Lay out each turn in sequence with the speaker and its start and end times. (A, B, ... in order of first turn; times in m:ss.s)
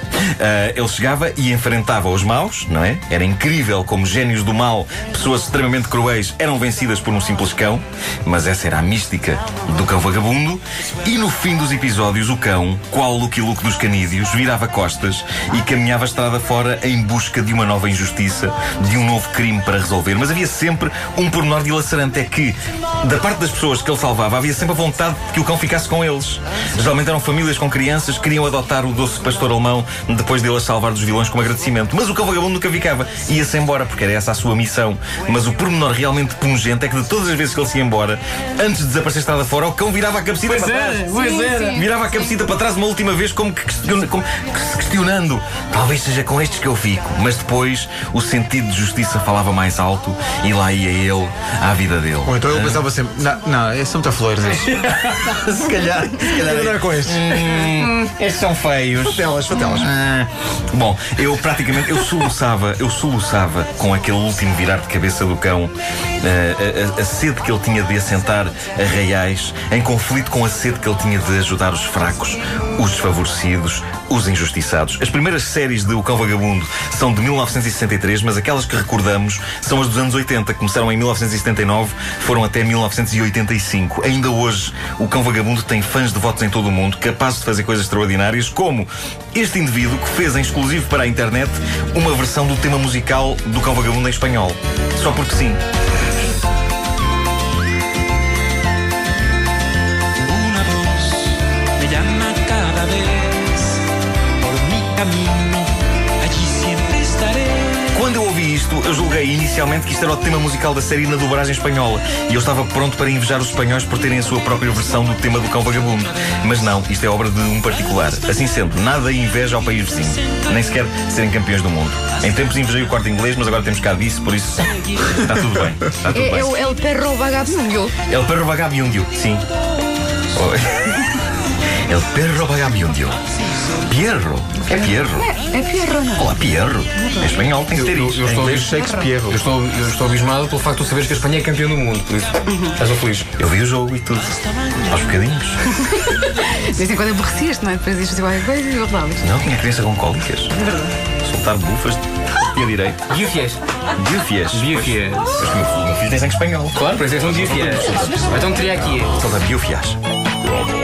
0:00.4-0:41.1 A
0:40.4-0:41.8 B
0:41.2-0:41.8 C
0:41.7-0:52.9 A
0:52.3-0:54.9 D
0:54.7-0:55.3 B
0:55.2-1:35.6 A
0:56.3-0:57.2 D
0:59.1-0:59.9 D
1:40.5-1:43.5 B
1:44.7-1:45.6 B
1:46.2-1:47.4 B
1:47.9-2:06.6 A
2:06.1-2:07.9 C
2:08.1-2:09.5 A
2:10.3-2:11.2 A
2:11.8-2:13.2 A
2:13.7-2:15.3 A
2:14.7-2:16.3 C
2:16.2-2:18.4 A
2:17.7-2:23.3 B
2:18.3-2:19.4 D
2:18.7-2:19.1 C
2:23.4-2:25.6 A
2:25.8-2:29.2 C
2:29.2-2:33.0 A
2:33.1-2:33.6 B
2:34.0-2:40.0 A
2:34.5-2:35.4 B
2:36.8-2:39.1 B